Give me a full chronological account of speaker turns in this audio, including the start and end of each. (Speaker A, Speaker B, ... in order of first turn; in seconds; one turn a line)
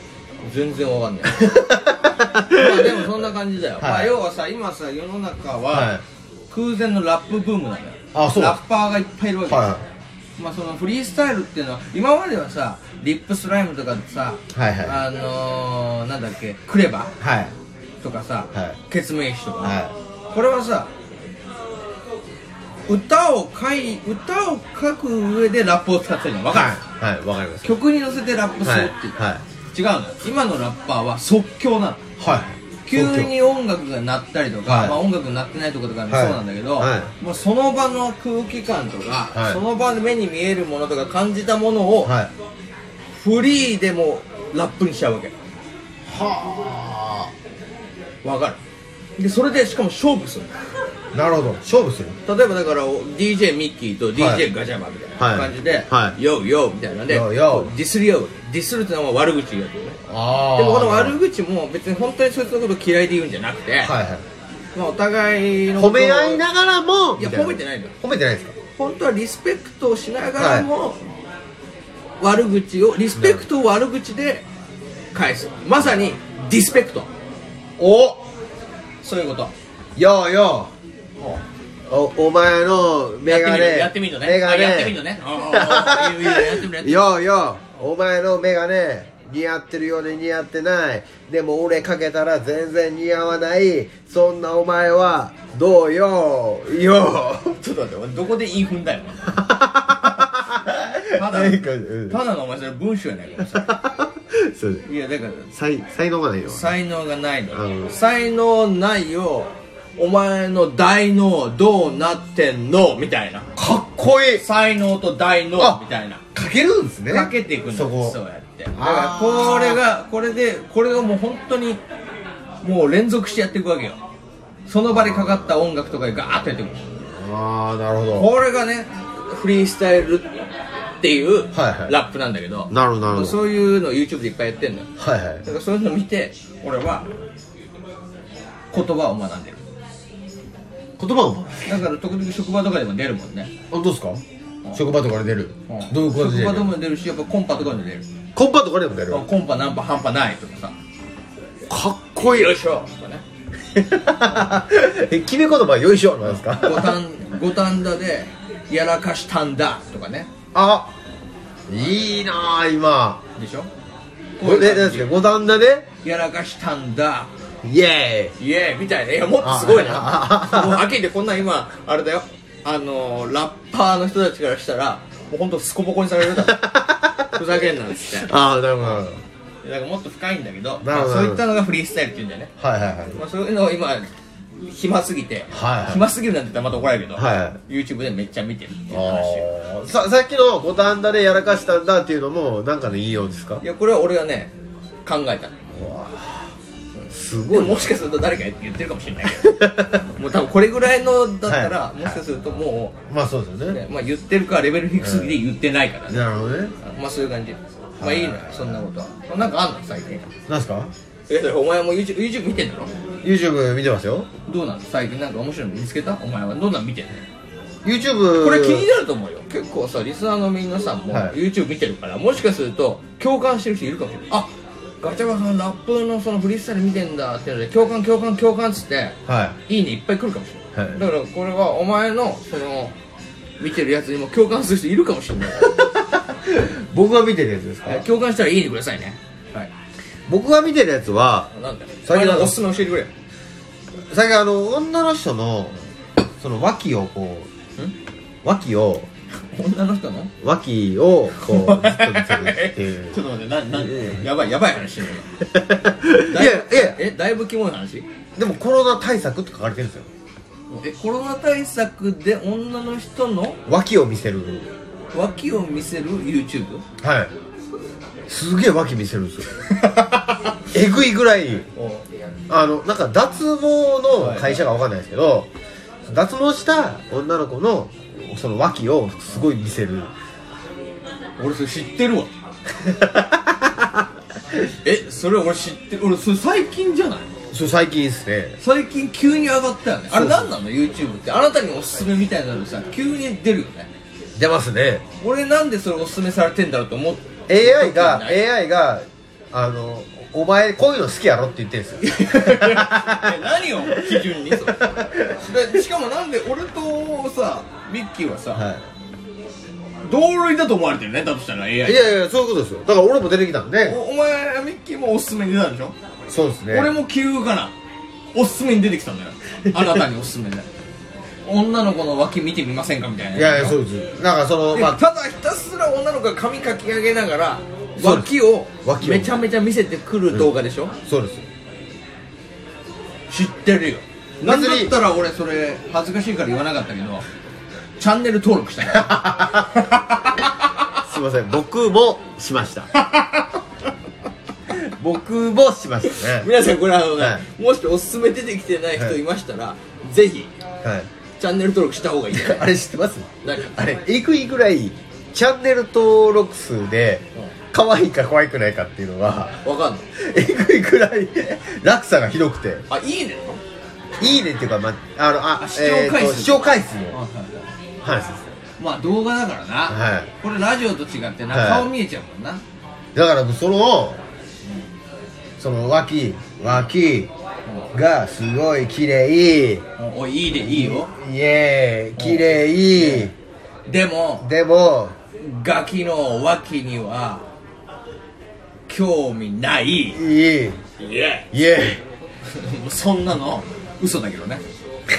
Speaker A: 0.4-1.4
Speaker B: 1.2-3.1
Speaker A: 2.5-5.9
Speaker B: 3.8-4.2
Speaker B: 5.7-6.0
Speaker A: 6.5-9.7
Speaker B: 8.1-8.6
Speaker B: 9.5-9.8
Speaker A: 10.4-17.1
Speaker B: 14.5-15.0
Speaker B: 17.2-17.5
Speaker A: 18.0-19.8
Speaker B: 19.6-19.9
Speaker A: 20.3-20.9
Speaker A: 22.9-26.8
Speaker B: 26.5-27.8
Speaker A: 27.6-29.1
Speaker B: 28.6-29.4
Speaker A: 29.7-32.0
Speaker B: 32.2-33.3
Speaker A: 32.9-42.1
Speaker B: 34.6-35.0
Speaker B: 36.1-37.1
Speaker B: 39.3-39.6
Speaker B: 42.0-42.3
Speaker A: 43.1-45.3
Speaker B: 46.1-47.3
Speaker A: 48.2-48.6
Speaker A: 49.2-50.5
Speaker B: 51.1-52.2
Speaker A: 52.3-60.0
Speaker B: 54.2-54.5
Speaker B: 55.2-56.2
Speaker B: 57.1-57.7
Speaker B: 60.1-61.2
Speaker A: 60.6-63.9
Speaker B: 63.8-64.2
Speaker A: 64.8-66.4
Speaker B: 65.8-68.5
Speaker A: 67.2-67.9
Speaker A: 68.8-71.0
Speaker B: 70.4-70.7
Speaker A: 72.2-74.4
Speaker B: 73.2-73.5
Speaker A: 75.1-77.1
Speaker B: 77.8-78.2
Speaker A: 79.0-79.5
Speaker B: 80.0-80.7
Speaker B: 81.9-97.6
Speaker A: 83.2-87.1
Speaker A: 97.6-99.4
Speaker B: 99.3-102.2
Speaker A: 101.0-103.8
Speaker B: 103.5-104.8
Speaker A: 104.8-105.5
Speaker B: 105.5-106.7
Speaker A: 106.5-113.5
Speaker B: 107.5-108.0
Speaker B: 113.6-114.5
Speaker A: 114.4-116.2
Speaker B: 116.3-118.2
Speaker A: 117.1-121.8
Speaker B: 118.7-119.8
Speaker A: 122.6-124.0
Speaker A: 124.7-126.9
Speaker B: 124.9-125.6
Speaker B: 127.0-128.3
Speaker A: 128.2-130.3
Speaker A: 131.0-134.9
Speaker B: 131.5-131.9
Speaker B: 132.7-133.4
Speaker B: 135.0-135.4
Speaker A: 135.4-137.1
Speaker A: 138.7-139.6
Speaker B: 141.0-141.8
Speaker A: 141.7-143.5
Speaker B: 143.7-144.2
Speaker B: 144.7-146.8
Speaker A: 145.7-148.1
Speaker B: 148.4-149.3
Speaker A: 149.1-150.8
Speaker B: 151.7-152.6
Speaker A: 152.2-153.2
Speaker B: 153.8-157.0
Speaker A: 156.3-160.3
Speaker B: 160.5-160.9
Speaker B: 161.7-163.2
Speaker A: 163.4-163.7
Speaker A: 164.4-165.1
Speaker B: 164.4-165.9
Speaker A: 166.0-167.3
Speaker B: 167.6-168.3
Speaker A: 168.4-176.7
Speaker B: 169.4-170.9
Speaker B: 176.4-177.4
Speaker A: 177.3-178.3
Speaker B: 178.1-179.2
Speaker A: 179.6-182.5
Speaker B: 180.8-181.4
Speaker B: 182.6-183.2
Speaker A: 183.2-184.1
Speaker A: 184.7-189.4
Speaker B: 185.5-186.0
Speaker B: 187.2-187.6
Speaker B: 188.9-193.6
Speaker A: 193.6-194.5
Speaker A: 195.1-195.6
Speaker B: 195.8-196.5
Speaker A: 197.0-199.5
Speaker B: 197.1-197.9
Speaker B: 199.3-200.1
Speaker A: 200.1-202.9
Speaker B: 201.5-202.2
Speaker B: 203.1-203.8
Speaker A: 203.7-206.2
Speaker B: 205.0-205.4
Speaker B: 206.1-206.7
Speaker A: 206.8-210.2
Speaker B: 208.0-208.8
Speaker B: 210.5-210.9
Speaker A: 211.3-212.9
Speaker B: 213.2-214.3
Speaker A: 214.5-217.2
Speaker B: 217.8-218.9
Speaker A: 218.4-224.5
Speaker B: 221.1-221.4
Speaker A: 225.0-229.2
Speaker B: 229.3-229.6
Speaker A: 229.7-232.9
Speaker A: 233.6-235.8
Speaker B: 235.6-238.1
Speaker A: 237.9-239.7
Speaker B: 240.3-241.5
Speaker A: 241.5-243.1
Speaker B: 242.1-242.6
Speaker B: 244.1-245.8
Speaker B: 246.4-247.5
Speaker B: 248.4-249.1
Speaker A: 249.4-250.3
Speaker B: 250.4-253.2
Speaker A: 251.4-255.3
Speaker B: 253.8-254.3
Speaker B: 255.5-257.0
Speaker A: 256.2-258.1
Speaker B: 258.4-260.1
Speaker A: 260.7-263.6
Speaker B: 263.7-264.7
Speaker A: 265.1-266.8
Speaker B: 267.0-267.3
Speaker B: 268.3-271.7
Speaker A: 271.8-272.1
Speaker B: 272.5-275.5
Speaker A: 274.2-274.6
Speaker B: 276.1-280.1
Speaker A: 281.4-282.3
Speaker B: 282.8-283.9
Speaker A: 284.8-287.3
Speaker B: 287.5-288.6
Speaker A: 288.6-293.9
Speaker B: 290.1-290.5
Speaker B: 294.4-295.0
Speaker A: 295.2-298.4
Speaker B: 297.5-305.5
Speaker A: 302.0-308.6
Speaker B: 308.5-308.8
Speaker A: 310.0-312.1
Speaker B: 311.8-314.0
Speaker A: 313.9-315.9
Speaker B: 316.3-316.9
Speaker A: 316.7-317.7
Speaker A: 318.3-320.7
Speaker A: 321.5-323.8
Speaker B: 323.4-325.0
Speaker A: 324.7-331.0
Speaker B: 328.0-328.3
Speaker B: 328.8-329.4
Speaker B: 331.1-331.4
Speaker A: 333.3-337.2
Speaker B: 334.4-334.9
Speaker A: 338.0-340.5
Speaker B: 338.9-339.7
Speaker B: 341.0-342.9
Speaker A: 343.0-343.5
Speaker B: 345.0-346.5
Speaker A: 346.1-350.5
Speaker B: 347.2-347.4
Speaker A: 351.4-352.7
Speaker B: 352.3-359.6
Speaker A: 353.4-353.9
Speaker A: 359.6-360.1
Speaker B: 360.1-362.9
Speaker A: 362.9-363.6
Speaker B: 364.2-367.2
Speaker A: 365.6-367.7
Speaker B: 368.0-368.5
Speaker A: 368.8-372.6
Speaker B: 369.9-370.3
Speaker B: 371.5-371.9
Speaker B: 373.1-374.2
Speaker B: 375.6-377.3
Speaker B: 377.9-379.9
Speaker A: 380.0-381.1
Speaker B: 380.6-383.3
Speaker A: 382.2-383.3
Speaker A: 383.9-384.5
Speaker B: 384.4-385.2
Speaker A: 385.4-387.5
Speaker A: 388.9-390.2
Speaker B: 390.1-390.8
Speaker A: 391.0-391.5
Speaker B: 391.5-392.0
Speaker A: 392.5-394.6